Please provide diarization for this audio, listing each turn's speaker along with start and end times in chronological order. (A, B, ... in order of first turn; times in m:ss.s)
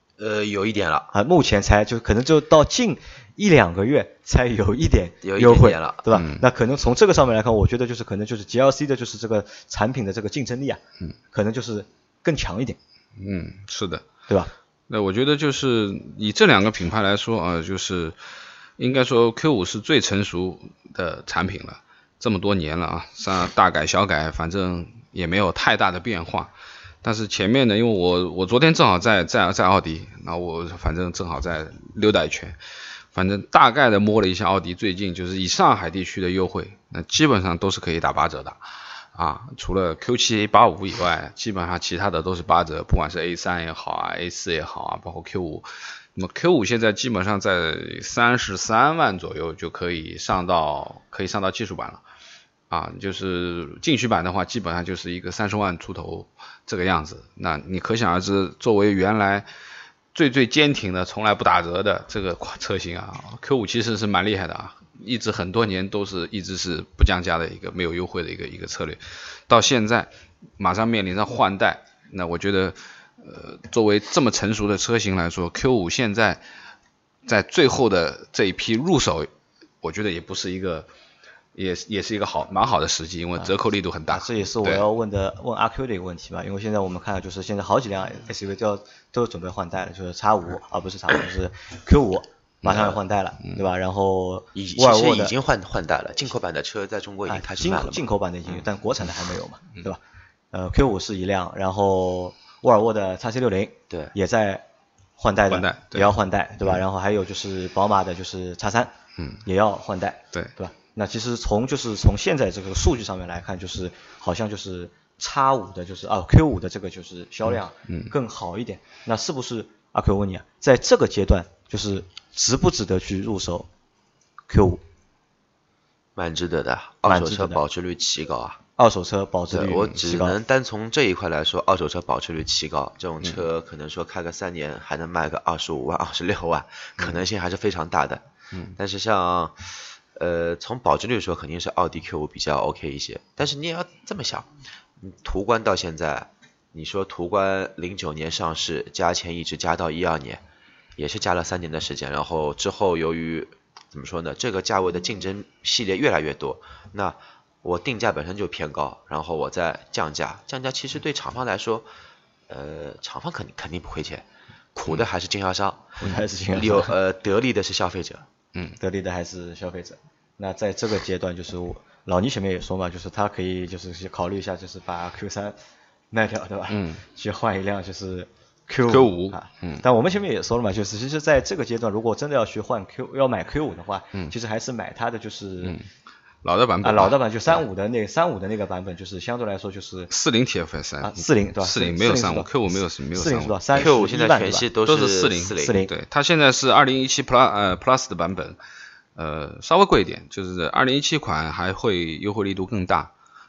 0:00.2-0:01.1 A
0:01.1-0:10.8 B
0:05.2-0:06.1 A
0:06.1-0:06.4 C
0:11.3-0:12.8 B
0:13.2-0:14.1 C
0:14.9-0:18.2 C
0:18.8-0:26.5 C
0:27.0-0:32.6 C
0:33.1-0:52.0 C
0:52.7-0:59.5 C
1:00.1-1:16.4 C
1:17.3-1:19.3 C
1:19.8-1:20.9 C
1:21.6-1:24.9 C
1:24.1-1:35.3 B
1:32.7-1:32.9 C
1:34.6-1:38.0 A
1:37.3-1:40.0 B
1:40.5-1:44.6 B
1:45.2-2:03.7 B
1:45.5-1:46.1 C
2:04.5-2:04.8 B
2:06.2-2:08.6 A
2:07.1-2:07.6 B
2:08.8-2:10.4 B
2:09.5-2:30.4 A
2:31.0-2:41.9 A
2:42.5-2:46.0 A
2:46.0-2:46.9 B
2:46.5-2:48.3 A
2:48.8-2:55.6 B
2:56.1-3:05.8 B
2:56.7-2:57.0 C
2:58.9-2:59.8 C
3:06.4-3:07.6 C
3:06.8-3:10.1 B
3:10.1-3:13.6 C
3:11.0-3:14.7 B
3:13.7-3:15.8 A
3:14.8-3:18.6 C
3:15.6-3:15.9 B
3:19.2-3:23.1 C